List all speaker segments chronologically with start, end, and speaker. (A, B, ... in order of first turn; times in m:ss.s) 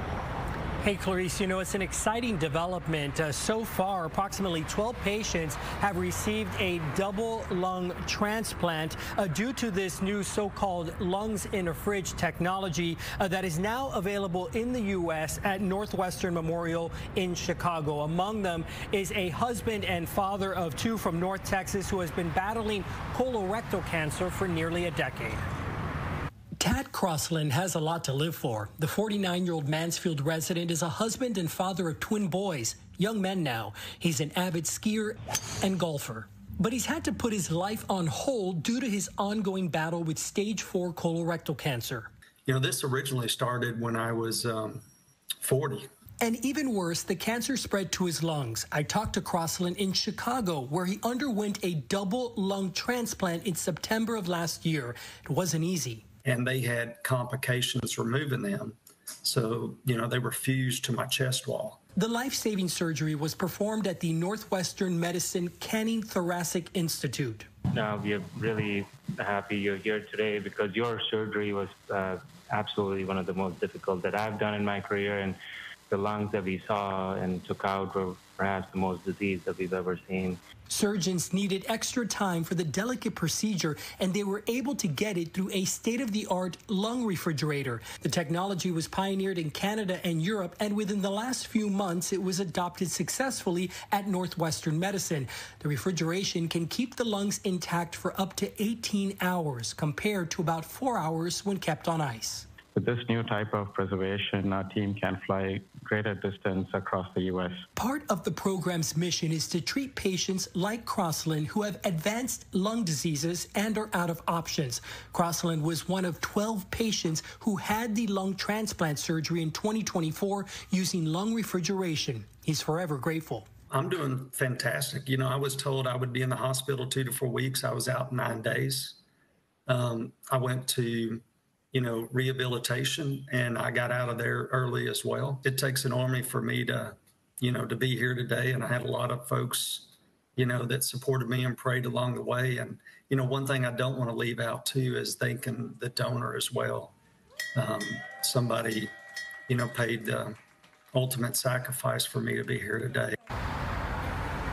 0:00.8-0:25.5 A
0:26.6-0:42.1 A
0:42.5-0:44.8 B
0:45.4-0:45.9 B
0:46.2-0:56.0 A
0:56.2-1:01.8 B
1:02.0-1:07.5 A
1:07.7-1:15.4 C
1:15.9-1:20.4 C
1:20.7-1:42.5 A
1:42.8-1:47.6 D
1:47.8-2:03.5 A
2:03.7-2:09.0 B
2:09.7-2:11.2 B
2:11.7-2:26.9 B
2:27.6-2:28.9 B
2:29.5-2:30.4 B
2:30.9-2:33.2 B